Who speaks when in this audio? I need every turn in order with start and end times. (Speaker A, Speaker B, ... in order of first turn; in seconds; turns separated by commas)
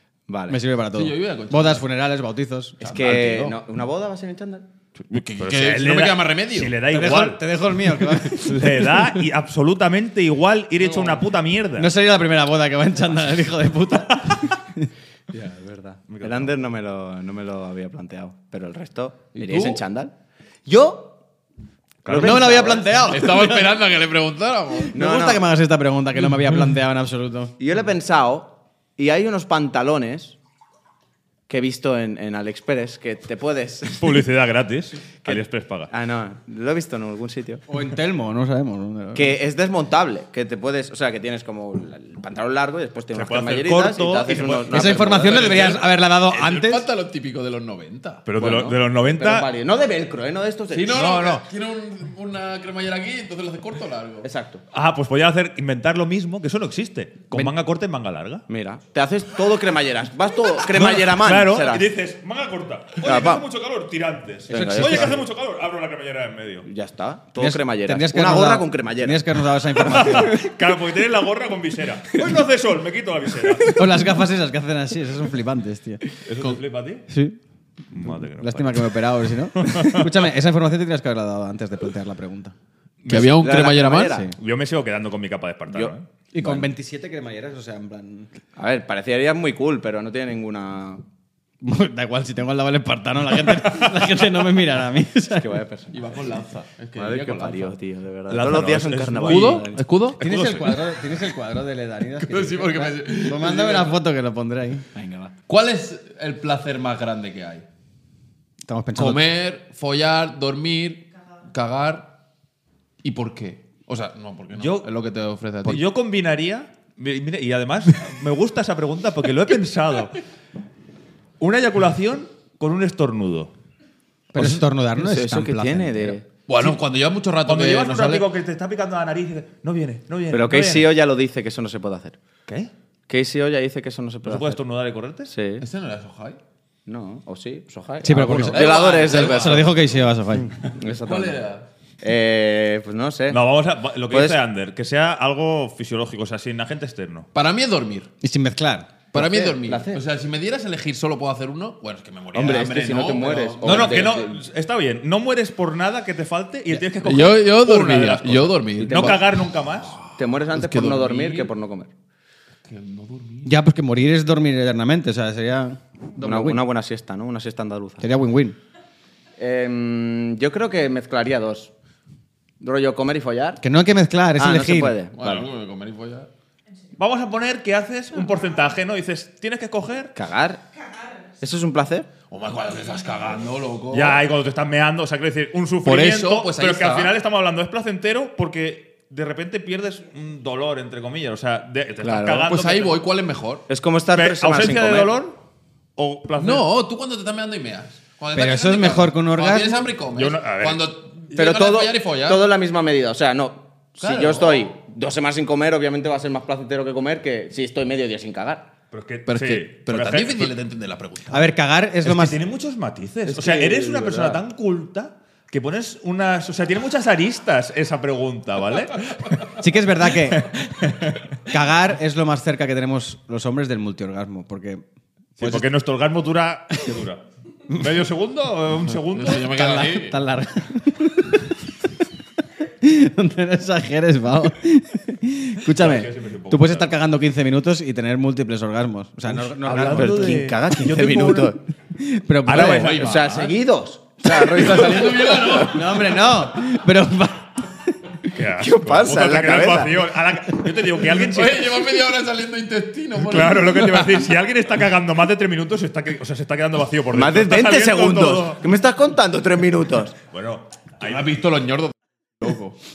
Speaker A: 0.3-0.6, Speaker B: 0.5-3.1, Speaker C: 0.9-1.8, Speaker C: 2.8-3.6, Speaker A: 2.8-4.7, Speaker C: 5.0-6.8, Speaker D: 5.4-7.4, Speaker B: 6.9-9.1, Speaker D: 8.3-11.9, Speaker C: 10.8-11.2, Speaker B: 11.8-14.9, Speaker A: 15.4-20.1, Speaker D: 16.1-16.5, Speaker C: 19.4-19.8, Speaker A: 20.7-21.1, Speaker D: 22.0-22.5, Speaker A: 22.1-23.0, Speaker B: 22.1-23.8, Speaker C: 23.1-25.0, Speaker B: 24.9-27.6, Speaker A: 24.9-25.4, Speaker A: 27.6-30.4, Speaker A: 31.5-34.2, Speaker D: 34.0-35.9, Speaker A: 35.3-37.6, Speaker B: 37.7-39.4, Speaker A: 39.1-45.7, Speaker D: 43.1-45.5, Speaker B: 44.7-46.9, Speaker C: 45.0-48.2, Speaker D: 48.2-49.5, Speaker A: 48.4-51.1, Speaker C: 50.7-54.3, Speaker D: 50.9-51.4, Speaker B: 51.0-51.3, Speaker A: 54.2-54.6, Speaker D: 54.7-58.5, Speaker A: 58.5-61.9, Speaker D: 60.7-66.7, Speaker A: 63.0-63.4, Speaker A: 64.5-65.2, Speaker B: 64.5-65.2, Speaker A: 66.6-69.2, Speaker B: 67.4-70.4, Speaker D: 69.9-73.8, Speaker B: 73.7-76.0, Speaker D: 76.2-77.1, Speaker B: 77.1-77.4, Speaker D: 77.9-79.0, Speaker B: 78.0-82.5, Speaker D: 79.5-80.2, Speaker D: 83.0-83.4, Speaker C: 83.1-84.2, Speaker A: 83.3-84.3, Speaker B: 84.1-84.3, Speaker D: 84.4-86.1, Speaker A: 85.7-86.7, Speaker B: 86.3-88.3, Speaker A: 88.6-91.0, Speaker B: 91.6-95.5, Speaker D: 93.6-93.9, Speaker A: 95.3-96.3, Speaker C: 95.9-97.7, Speaker A: 97.0-99.8, Speaker D: 98.3-99.7, Speaker C: 99.2-100.3, Speaker B: 100.2-104.9, Speaker D: 100.2-100.7, Speaker C: 102.2-104.0, Speaker A: 104.9-105.3, Speaker C: 105.5-107.7, Speaker B: 108.6-109.2, Speaker C: 109.0-112.1, Speaker C: 113.0-115.8, Speaker D: 114.6-114.9, Speaker D: 115.6-120.2, Speaker D: 121.4-123.5, Speaker B: 124.3-126.2, Speaker C: 124.4-124.6, Speaker A: 125.0-126.3, Speaker C: 126.5-128.3, Speaker D: 127.4-130.9, Speaker A: 130.3-132.2, Speaker A: 133.1-134.6, Speaker D: 134.2-135.3, Speaker A: 135.3-135.7, Speaker C: 135.6-136.4, Speaker A: 136.9-139.7, Speaker B: 138.0-140.6, Speaker C: 138.4-140.0, Speaker A: 140.7-141.4, Speaker C: 140.9-141.7, Speaker A: 142.0-143.4, Speaker D: 143.3-147.3, Speaker A: 144.1-144.4, Speaker C: 147.3-148.1, Speaker B: 148.2-148.9, Speaker A: 149.1-150.0, Speaker C: 149.1-154.2, Speaker A: 152.3-154.4, Speaker D: 153.6-160.0, Speaker C: 157.0-161.5, Speaker A: 158.8-159.2, Speaker A: 160.2-161.9, Speaker C: 162.7-163.6, Speaker B: 163.4-166.6, Speaker A: 166.2-168.1, Speaker B: 168.0-168.6, Speaker A: 169.4-171.7, Speaker A: 172.6-173.6, Speaker B: 173.6-175.0, Speaker A: 174.4-175.4, Speaker C: 175.1-176.3, Speaker D: 177.0-180.1, Speaker A: 180.2-180.7, Speaker A: 181.4-182.1, Speaker C: 182.3-184.2, Speaker D: 183.9-193.0, Speaker C: 185.8-187.1, Speaker A: 192.0-192.5, Speaker C: 192.4-193.7, Speaker A: 193.7-195.1, Speaker D: 194.1-195.4, Speaker D: 196.0-196.7, Speaker C: 196.4-202.4, Speaker B: 198.3-199.9, Speaker D: 200.1-200.9, Speaker A: 201.3-208.7, Speaker C: 204.0-204.7, Speaker D: 208.9-210.6, Speaker C: 209.3-211.5, Speaker B: 211.3-212.4, Speaker D: 212.0-219.6, Speaker A: 213.3-214.4, Speaker B: 219.6-220.9, Speaker D: 220.2-221.3, Speaker B: 221.4-224.8, Speaker D: 225.4-229.6, Speaker B: 225.4-225.7, Speaker C: 229.1-230.2, Speaker B: 229.4-231.7, Speaker B: 232.6-240.5, Speaker D: 235.7-236.9, Speaker D: 239.3-241.6, Speaker A: 239.8-241.6, Speaker B: 241.9-243.0, Speaker D: 242.5-243.5, Speaker C: 242.5-243.6, Speaker A: 242.6-245.8, Speaker C: 244.2-246.0, Speaker B: 245.6-248.1, Speaker D: 248.3-251.9, Speaker A: 248.6-250.0, Speaker C: 251.1-254.2, Speaker D: 253.2-258.6, Speaker A: 257.1-260.2, Speaker D: 260.3-261.4, Speaker C: 261.0-262.7